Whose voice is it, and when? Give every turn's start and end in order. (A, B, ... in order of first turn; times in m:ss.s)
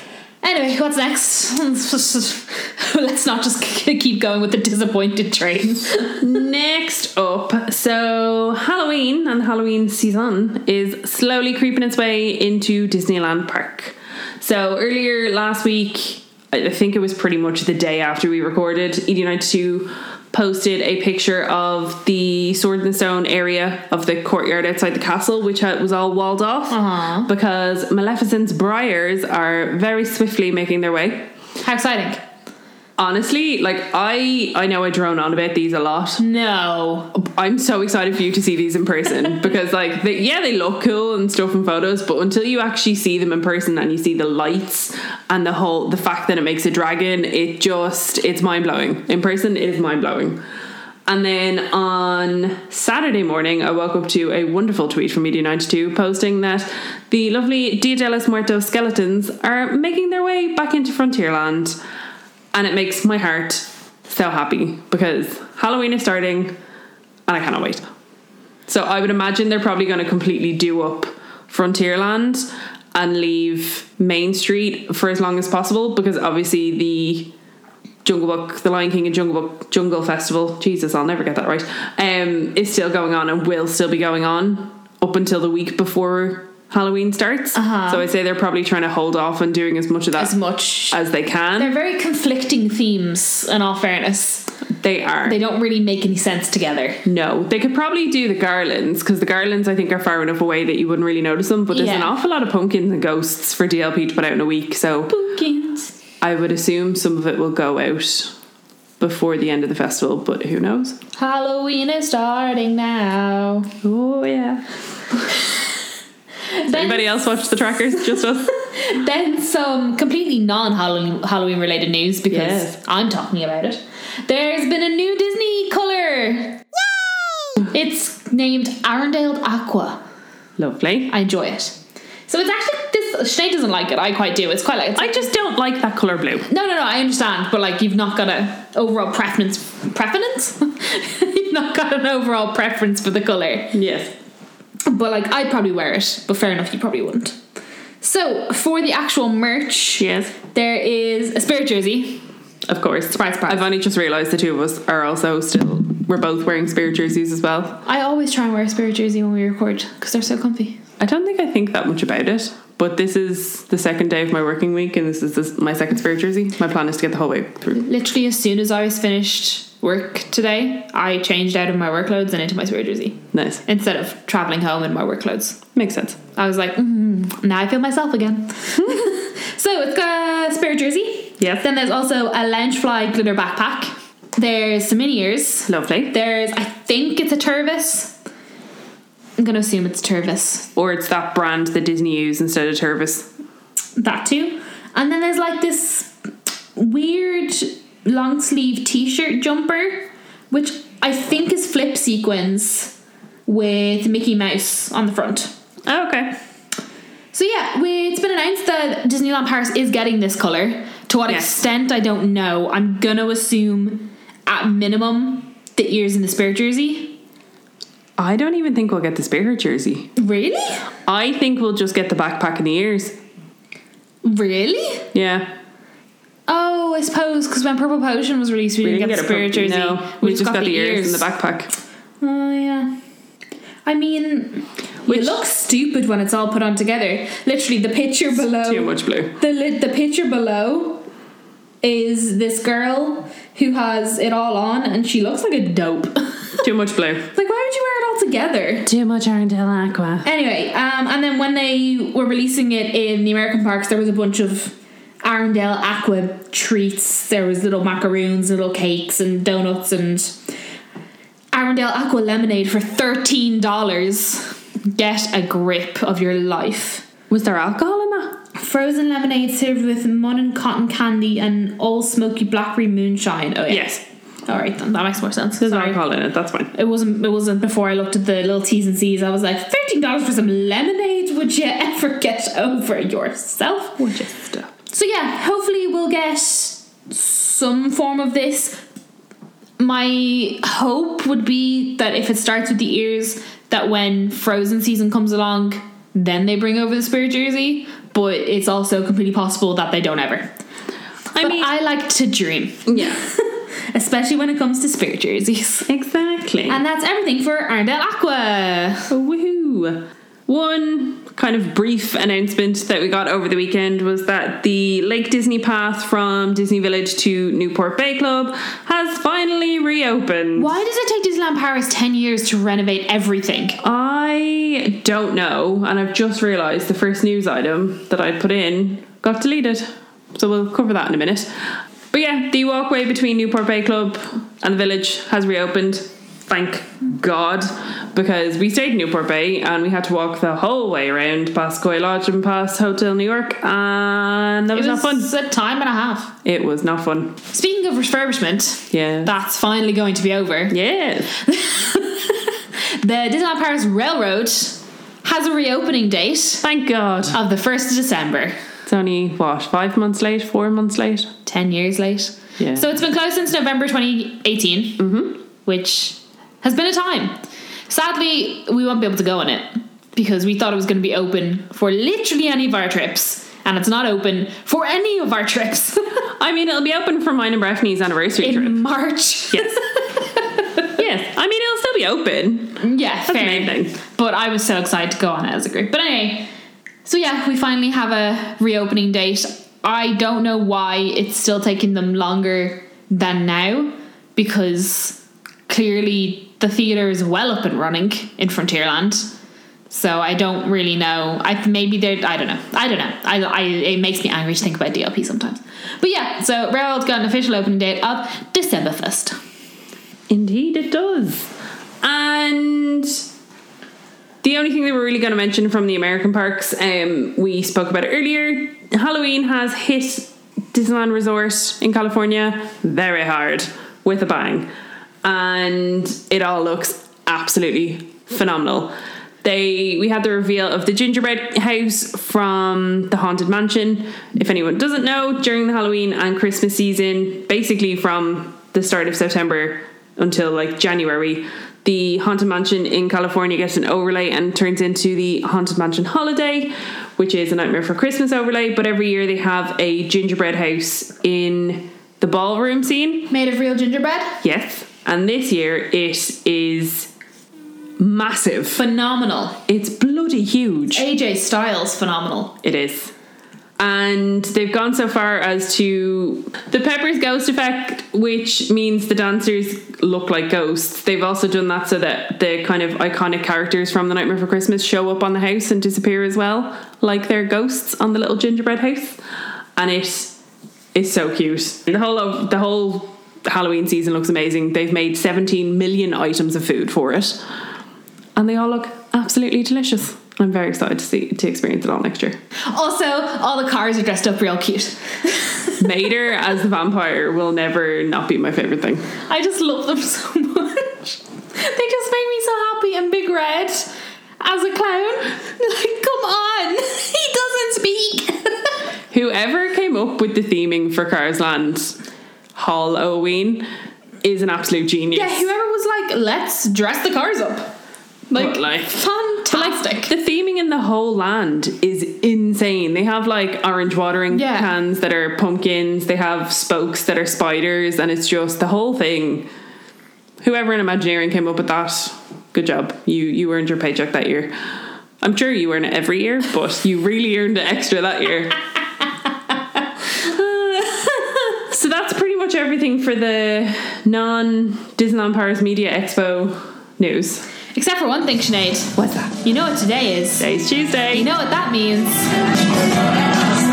0:00.4-0:06.2 A
0:06.2-0:31.3 B
0:26.7-0:27.3 A
0:31.6-0:32.2 A
0:33.0-0:36.2 B
0:36.2-0:37.2 A
0:37.2-0:50.4 B
0:51.1-1:01.8 B
1:02.5-1:06.6 B
1:07.3-1:07.8 B
1:08.7-1:17.3 B
1:18.0-1:30.4 B
1:27.6-1:28.1 A
1:30.2-1:31.0 A
1:30.9-1:31.7 B
1:31.6-1:34.5 A
1:34.8-1:35.4 B
1:35.2-1:37.0 A
1:37.0-1:45.1 B
1:41.7-1:42.1 A
1:45.1-1:46.0 A
1:46.2-1:48.3 B
1:49.0-1:51.0 B
1:51.2-1:53.7 A
1:53.8-1:54.7 B
1:56.5-1:57.1 A
1:56.7-1:58.5 B
1:58.2-2:06.7 A
2:02.3-2:02.8 B
2:07.6-2:10.0 A
2:10.6-2:11.1 B
2:11.1-2:11.8 A
2:12.3-2:15.3 A
2:15.0-2:16.5 B
2:16.5-2:23.8 A
2:23.7-2:24.1 B
2:24.9-2:27.4 A
2:28.0-2:32.2 A
2:30.0-2:30.4 B
2:32.7-2:37.8 B
2:33.1-2:33.6 A
2:37.8-2:40.8 A
2:41.0-2:47.8 B
2:47.8-2:55.6 A
2:53.3-2:53.6 B
2:55.8-2:56.2 B
2:56.4-3:08.2 A
2:58.8-2:59.0 B
3:01.4-3:01.6 B
3:05.7-3:06.1 B
3:09.4-3:10.7 A
3:10.8-3:13.3 B
3:14.0-3:16.1 A
3:16.8-3:25.5 A
3:25.8-3:26.4 B
3:27.3-3:37.2 A
3:31.3-3:31.6 B
3:38.2-3:40.1 B
3:40.2-3:40.9 A
3:41.1-3:43.2 B
3:44.2-3:45.1 A
3:45.1-3:45.5 B
3:46.5-3:51.3 A
3:48.8-3:51.7 B
3:52.2-3:53.0 A
3:53.8-4:01.1 A
3:55.1-3:55.4 B
3:58.5-3:59.4 B
4:01.8-4:06.7 A
4:06.6-4:07.3 B
4:07.3-4:08.9 A
4:08.8-4:10.3 B
4:10.2-4:20.4 A
4:21.5-4:27.1 A
4:27.3-4:28.4 B
4:28.6-4:34.0 A
4:33.7-4:34.0 B
4:34.5-4:36.0 A
4:35.6-4:36.7 B
4:36.7-4:44.1 A
4:44.0-4:44.7 B
4:44.9-4:48.8 A
4:49.8-5:00.5 A
5:01.3-5:01.7 B
5:01.4-5:05.9 A
5:02.9-5:03.2 B
5:05.9-5:06.8 B
5:06.7-5:09.1 A
5:09.1-5:20.8 B
5:20.6-5:23.8 A
5:23.8-5:31.5 B
5:32.1-5:45.3 B
5:44.7-5:46.4 A
5:46.4-5:47.4 B
5:47.5-5:50.8 A
5:48.9-5:49.3 B
5:50.7-5:51.3 B
5:51.3-5:56.6 A
5:56.6-5:57.4 B
5:57.3-5:58.6 A
5:58.8-6:01.3 B
6:01.5-6:05.1 A
6:02.6-6:02.9 B
6:05.0-6:05.4 B
6:05.6-6:07.4 A
6:07.9-6:16.2 A
6:16.4-6:18.8 B
6:18.4-6:20.9 A
6:21.0-6:24.0 B
6:22.8-6:26.5 A
6:27.0-6:39.3 A
6:39.9-6:49.4 A
6:50.3-6:53.2 B
6:54.4-7:04.7 B
7:05.2-7:33.3 B
7:33.3-7:34.4 A
7:34.4-7:37.1 B
7:38.0-7:38.8 B
7:38.8-7:39.6 A
7:39.7-7:41.1 B
7:40.9-7:42.6 A
7:42.6-7:43.1 B
7:43.8-7:59.2 B
7:59.8-8:00.4 B
8:00.9-8:07.4 B
8:08.4-8:12.4 B
8:12.7-8:15.9 A
8:15.8-8:19.1 B
8:19.2-8:28.8 A
8:29.1-8:32.0 B
8:32.6-8:33.7 B
8:34.2-8:35.5 B
8:35.1-8:37.7 A
8:38.3-8:40.1 A
8:38.3-8:49.5 B
8:44.3-8:44.7 A
8:50.4-8:54.5 B
8:55.2-8:58.6 B
9:00.1-9:07.5 B
9:07.8-9:10.4 A
9:09.0-9:09.4 B
9:10.4-9:11.3 B
9:11.1-9:12.3 A